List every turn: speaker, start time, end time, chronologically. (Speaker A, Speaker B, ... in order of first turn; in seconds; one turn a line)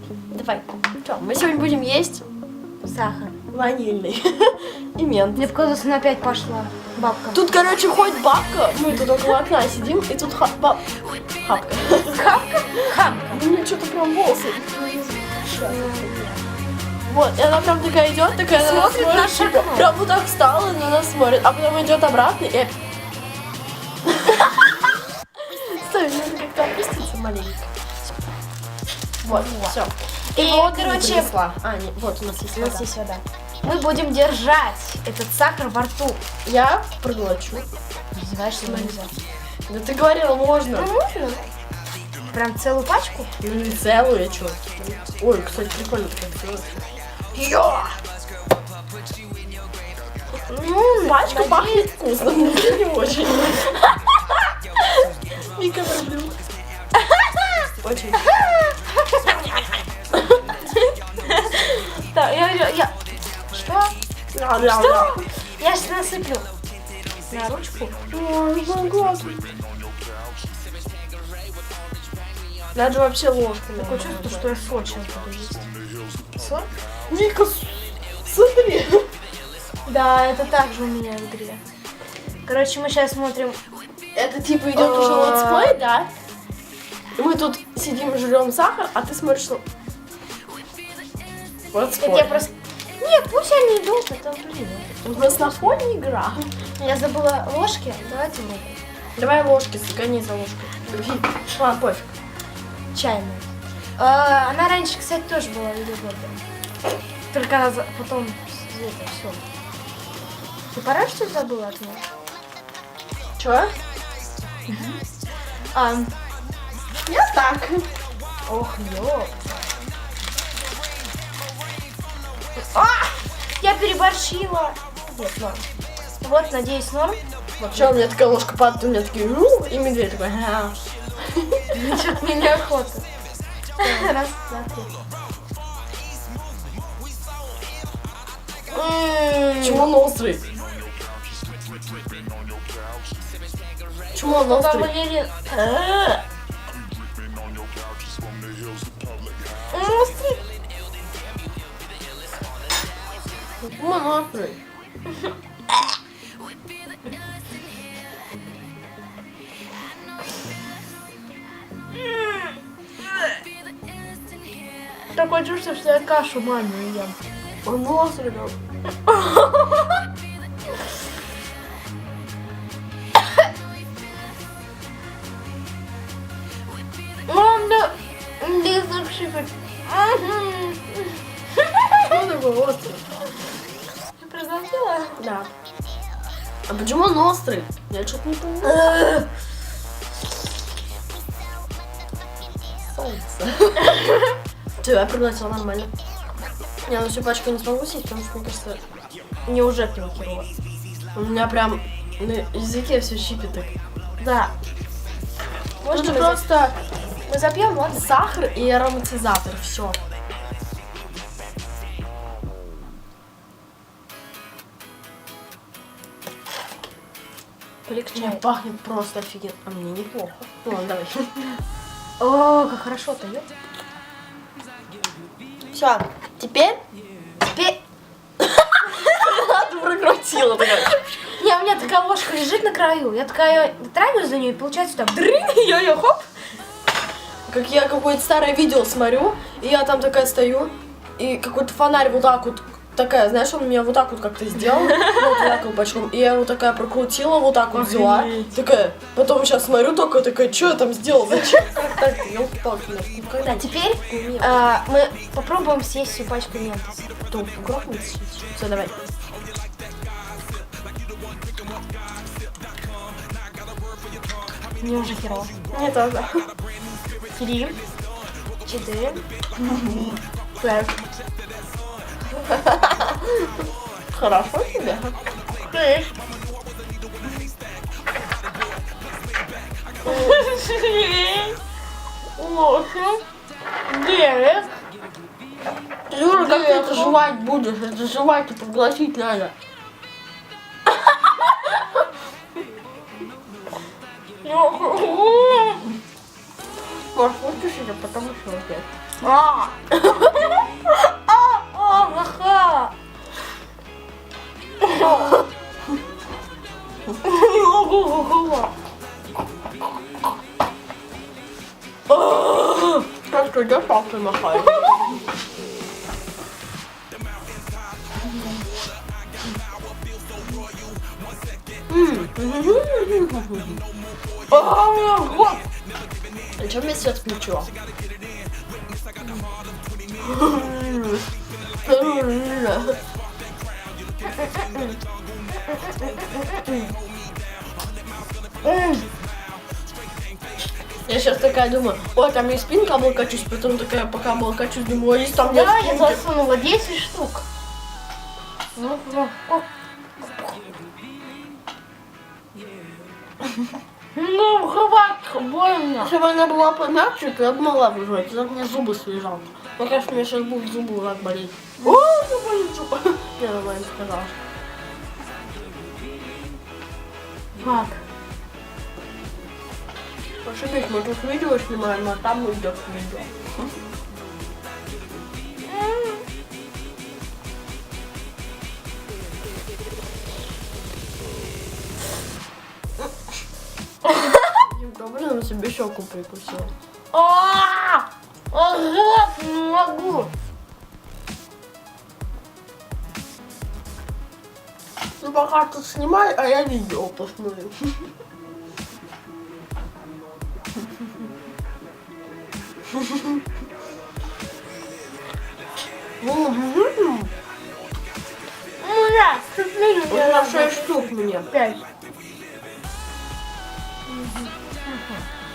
Speaker A: 0.3-2.2
Speaker B: 2.8-3.4
Speaker A: 3.5-5.5
Speaker B: 5.4-7.5
Speaker A: 7.3-12.3
Speaker B: 12.1-13.4
Speaker A: 13.3-16.2
Speaker B: 15.5-16.4
Speaker A: 17.1-22.7
Speaker B: 18.5-19.9
Speaker A: 24.1-24.8
Speaker A: 25.5-27.7
Speaker A: 29.2-32.9
Speaker B: 29.3-29.8
Speaker B: 30.3-31.3
Speaker B: 32.6-36.2
Speaker A: 36.4-37.7
Speaker B: 38.1-39.2
Speaker A: 38.6-39.0
Speaker A: 39.7-40.9
Speaker B: 40.8-41.5
Speaker B: 42.3-43.3
Speaker A: 43.4-46.8
Speaker B: 47.4-48.0
Speaker B: 50.5-52.8
Speaker A: 51.0-53.7
Speaker A: 55.6-56.4
Speaker B: 57.0-57.5
Speaker A: 57.8-58.3
Speaker B: 58.2-59.5
Speaker B: 61.3-63.0
Speaker B: 63.5-63.9
Speaker A: 64.3-65.2
Speaker B: 64.7-66.5
Speaker B: 67.3-68.0
Speaker A: 68.1-69.6
Speaker A: 72.8-74.5
Speaker B: 73.8-75.7
Speaker B: 76.3-76.7
Speaker A: 77.1-79.1
Speaker B: 79.8-81.6
Speaker B: 82.5-83.6
Speaker A: 84.1-86.1
Speaker B: 84.8-85.8
Speaker A: 87.2-89.6
Speaker A: 91.7-92.5
Speaker B: 92.0-95.8
Speaker A: 95.0-96.5
Speaker B: 96.8-98.8
Speaker A: 99.2-102.1
Speaker B: 102.9-106.4
Speaker B: 107.3-109.4
Speaker B: 110.7-112.0
Speaker A: 113.4-113.8
Speaker B: 114.7-115.0
Speaker B: 115.7-116.1
Speaker A: 117.1-117.9
Speaker B: 118.5-119.6
Speaker B: 122.6-125.7
Speaker B: 126.2-127.2
Speaker A: 127.6-131.7
Speaker B: 131.7-133.1
Speaker B: 133.8-134.9
Speaker A: 133.8-134.1
Speaker B: 138.7-139.8
Speaker A: 139.6-140.4
Speaker A: 144.1-144.9
Speaker B: 144.2-146.2
Speaker B: 149.7-150.4
Speaker A: 153.6-154.6
Speaker B: 162.0-162.5
Speaker B: 165.1-167.2
Speaker A: 167.6-168.6
Speaker B: 169.1-170.0
Speaker B: 177.3-182.1
Speaker A: 182.1-183.1
Speaker B: 184.2-185.2
Speaker A: 185.2-185.5
Speaker A: 186.7-188.8
Speaker B: 188.6-189.3
Speaker A: 192.9-193.9
Speaker A: 194.8-195.9
Speaker A: 196.9-198.8
Speaker B: 199.5-200.5
Speaker A: 201.1-203.7
Speaker B: 204.2-204.5
Speaker B: 205.8-206.5
Speaker A: 205.9-206.8
Speaker B: 207.3-208.0
Speaker A: 207.8-210.0
Speaker A: 217.9-221.4
Speaker B: 218.1-218.4
Speaker B: 222.2-223.5
Speaker A: 225.7-226.8
Speaker B: 227.5-227.8
Speaker A: 229.0-231.0
Speaker B: 230.9-236.3
Speaker A: 237.5-254.6
Speaker B: 244.7-245.6
Speaker B: 247.7-248.5
Speaker B: 253.4-257.1
Speaker A: 257.3-259.0
Speaker B: 264.8-265.5
Speaker A: 265.7-266.5
Speaker B: 267.4-267.8
Speaker B: 268.6-269.2
Speaker B: 270.6-271.0
Speaker A: 274.1-275.2
Speaker B: 275.6-276.1
Speaker B: 280.1-281.6
Speaker B: 282.4-283.2
Speaker B: 283.9-284.7
Speaker A: 286.1-289.5
Speaker B: 286.3-287.2
Speaker B: 294.4-295.9
Speaker A: 297.1-298.9
Speaker B: 299.2-299.8
Speaker B: 300.3-302.9
Speaker B: 304.8-305.4
Speaker B: 307.2-308.7
Speaker B: 312.1-313.1
Speaker A: 313.3-314.9
Speaker A: 321.9-323.8
Speaker B: 324.5-325.6
Speaker A: 326.6-327.7
Speaker A: 330.2-331.3
Speaker A: 331.9-333.0
Speaker B: 334.2-335.0
Speaker B: 335.6-336.9
Speaker B: 338.6-339.1
Speaker A: 341.1-346.2
Speaker B: 345.4-347.4
Speaker B: 348.8-349.7
Speaker B: 354.1-356.1
Speaker A: 356.0-364.4
Speaker B: 367.6-368.0
Speaker A: 370.4-373.3
Speaker B: 375.7-376.2
Speaker B: 384.1-384.6
Speaker A: 384.7-386.7
Speaker B: 387.1-390.3
Speaker A: 395.2-398.1
Speaker A: 406.2-407.3
Speaker B: 408.8-411.8
Speaker A: 410.1-411.5
Speaker B: 414.1-415.2